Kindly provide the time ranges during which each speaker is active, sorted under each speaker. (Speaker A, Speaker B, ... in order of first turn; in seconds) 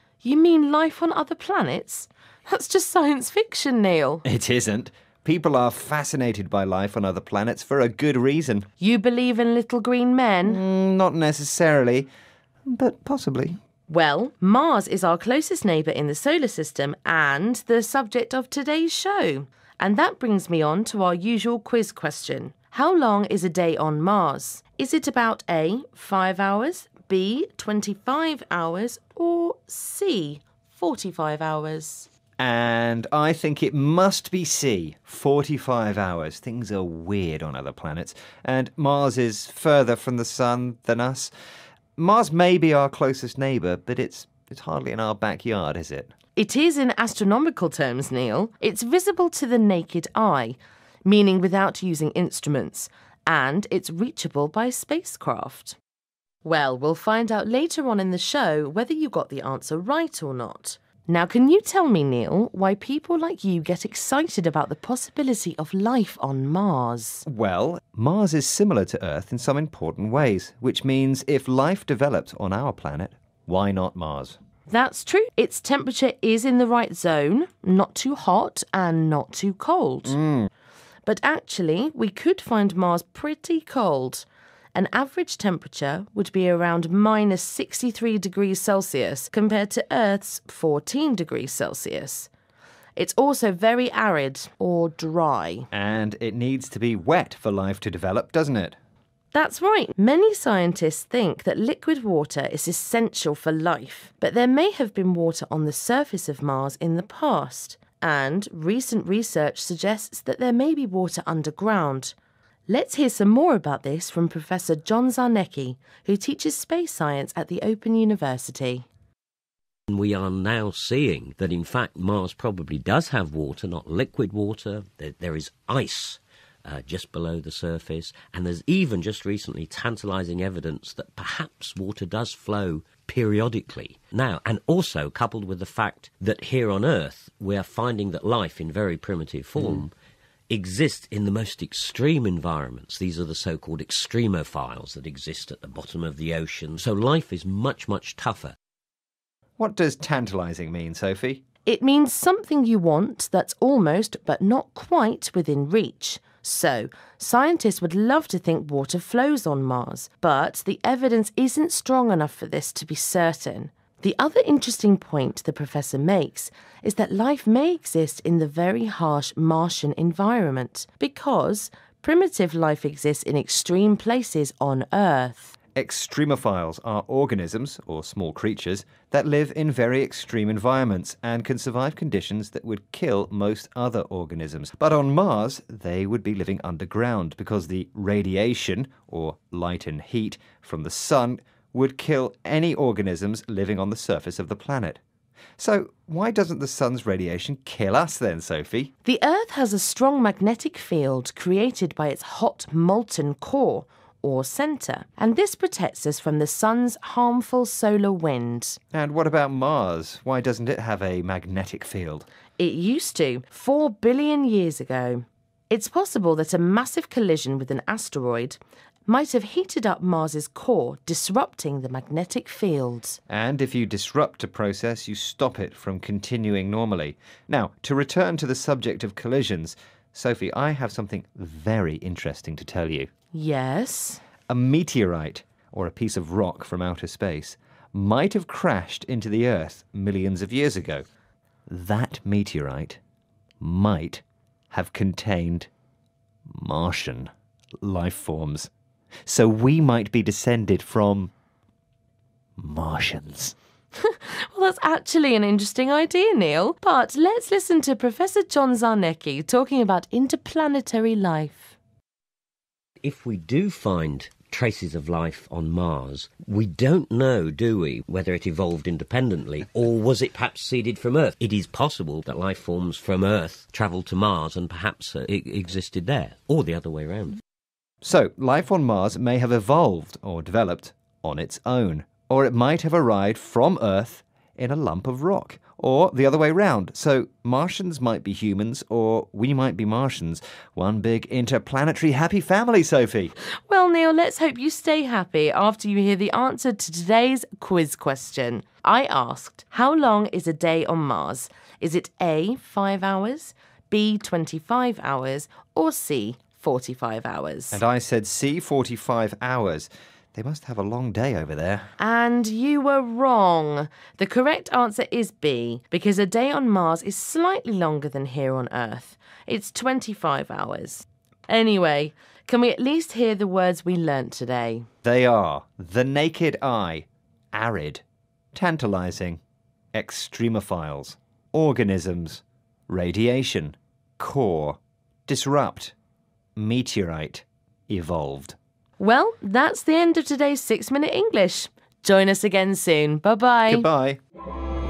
Speaker A: 0.2-4.2, 8.8-10.6, 13.9-32.1, 46.4-55.8, 56.4-67.2, 74.7-80.2, 81.0-92.3, 93.0-95.7, 99.3-112.1, 112.7-118.8, 151.6-175.6, 199.0-208.8, 212.6-223.2, 233.3-234.2, 253.9-261.8, 293.7-307.8, 312.0-324.9, 339.0-343.9
Speaker B: 4.2-8.7, 10.4-12.1, 12.7-13.6, 32.4-41.3, 42.0-46.1, 67.2-74.4, 80.1-80.5, 95.7-98.8, 149.6-151.4, 175.7-195.0, 195.6-198.9, 208.9-212.3, 223.3-233.1, 234.5-241.0, 241.7-243.0, 243.6-245.7, 246.5-248.7, 249.2-251.3, 252.6-253.5, 278.0-293.3, 307.7-311.9, 325.0-328.0, 328.5-329.4, 329.9-335.9, 336.6-338.6, 343.7-344.2
Speaker C: 119.9-139.9, 140.5-148.5, 263.0-277.4